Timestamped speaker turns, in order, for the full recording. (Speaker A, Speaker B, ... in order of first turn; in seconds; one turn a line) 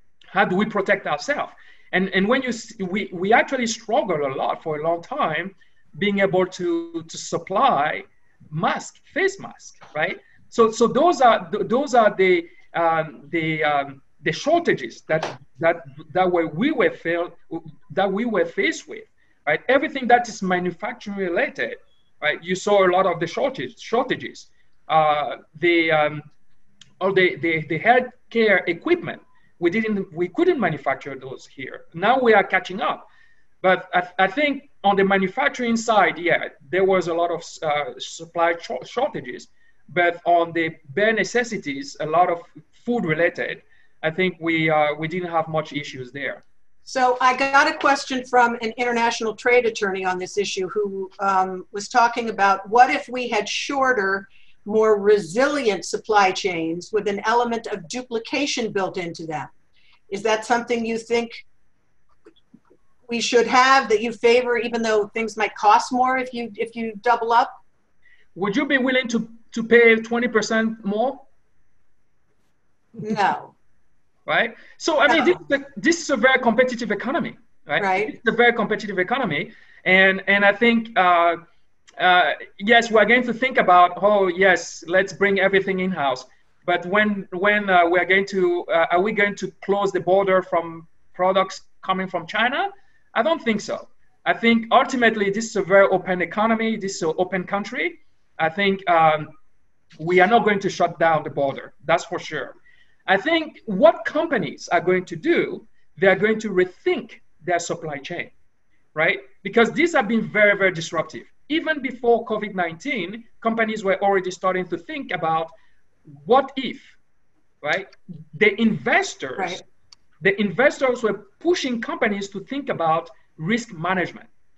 Speaker A: 0.3-26.3
Speaker A: 27.0-33.1
Speaker A: 33.6-46.4
Speaker B: 46.9-59.5
Speaker B: 60.1-61.4
Speaker B: 63.1-67.5
Speaker A: 68.3-71.2
Speaker B: 73.0-73.5
Speaker A: 74.3-81.4
Speaker B: 75.1-75.4
Speaker B: 77.8-78.1
Speaker A: 82.0-99.3
Speaker A: 100.0-102.5
Speaker A: 103.1-108.3
Speaker A: 109.0-115.5
Speaker A: 116.2-116.9
Speaker A: 117.6-119.6
Speaker A: 120.2-124.3